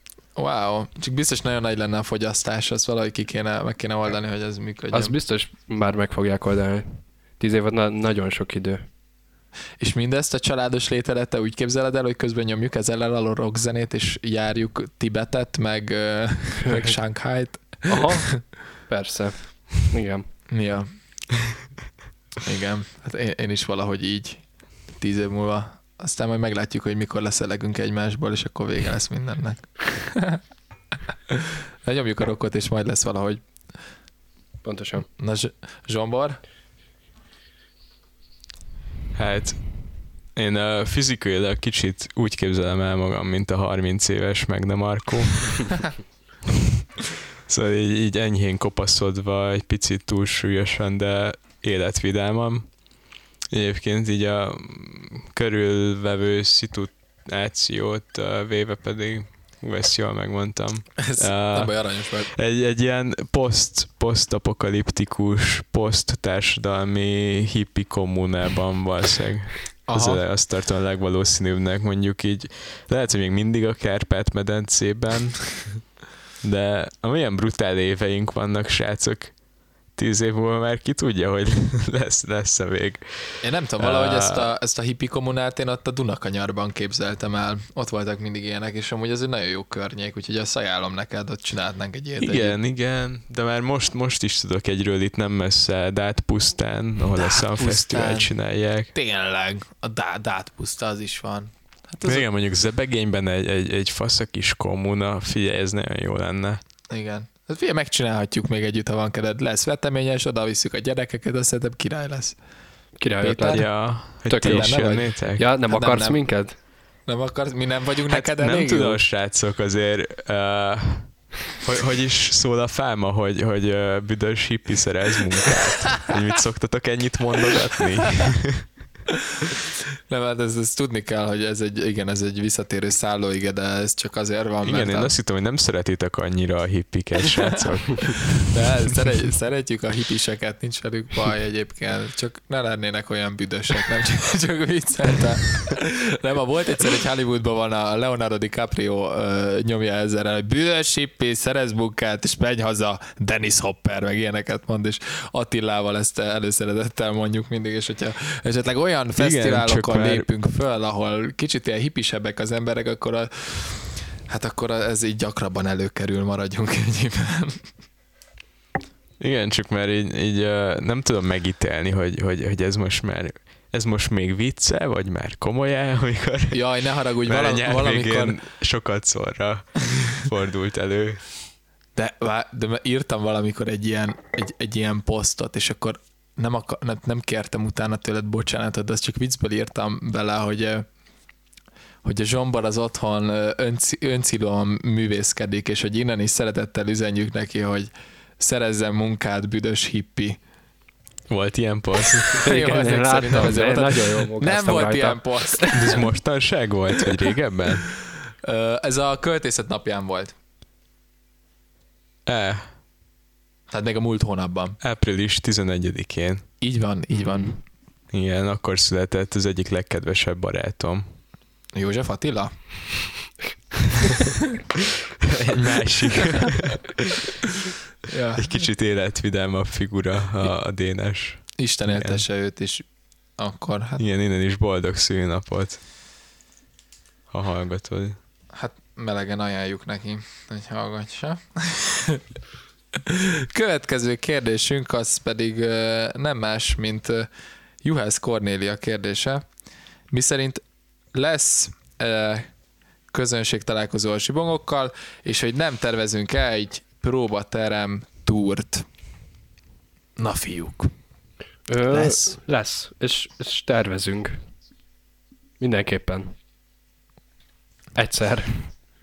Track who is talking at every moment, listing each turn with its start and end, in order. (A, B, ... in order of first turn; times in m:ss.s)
0:00.4-0:05.2 A
0:04.9-0:08.8 B
0:09.8-0:18.4 A
0:16.7-0:17.0 B
0:17.9-0:20.3 B
0:20.5-0:20.9 A
0:22.4-0:30.4 A
0:31.3-0:33.4 A
0:34.6-0:35.1 B
0:35.0-0:36.4 A
0:39.1-0:45.8 C
0:47.5-0:52.8 C
0:53.5-1:15.8 C
1:01.0-1:02.3 A
1:09.9-1:10.2 A
1:16.4-1:19.4 C
1:19.9-1:24.5 C
1:23.4-1:32.6 A
1:32.2-1:38.9 C
1:37.1-1:42.3 A
1:42.0-1:46.6 C
1:46.9-1:52.4 A
1:53.0-1:56.6 B
1:53.2-1:53.6 A
1:53.5-1:55.5 C
1:54.3-1:56.3 A
1:57.1-1:59.0 A
1:58.1-2:08.7 C
2:10.1-2:15.2 A
2:14.6-2:18.5 C
2:18.5-2:47.6 A
2:39.2-2:40.3 C
2:49.2-3:01.3 C
2:56.5-2:58.4 A
3:02.0-3:10.9 A
3:12.0-3:20.4 A
3:21.3-3:22.4 C
3:22.4-3:26.0 B
3:22.4-3:26.0 A
3:25.7-3:27.9 C
3:28.4-3:30.4 A
3:32.3-3:32.7 C
3:33.7-3:34.8 A
3:34.8-3:36.5 C
3:36.6-3:37.6 A
3:37.1-3:37.6 B
3:38.1-3:41.2 C
3:41.7-3:43.0 A
3:45.4-3:46.9 C
3:48.1-3:48.5 A
3:48.4-3:52.2 C
3:51.6-3:54.0 A
3:54.0-3:55.8 C
3:57.3-3:58.2 C
3:58.5-4:02.2 A
4:03.1-4:07.3 A
4:07.8-4:09.4 A
4:10.1-4:10.6 A
4:11.1-4:12.5 A
4:13.1-4:18.9 A
4:20.2-4:20.9 A
4:21.7-4:24.4 B
4:21.9-4:22.4 A
4:25.6-4:26.3 B
4:28.0-4:28.8 B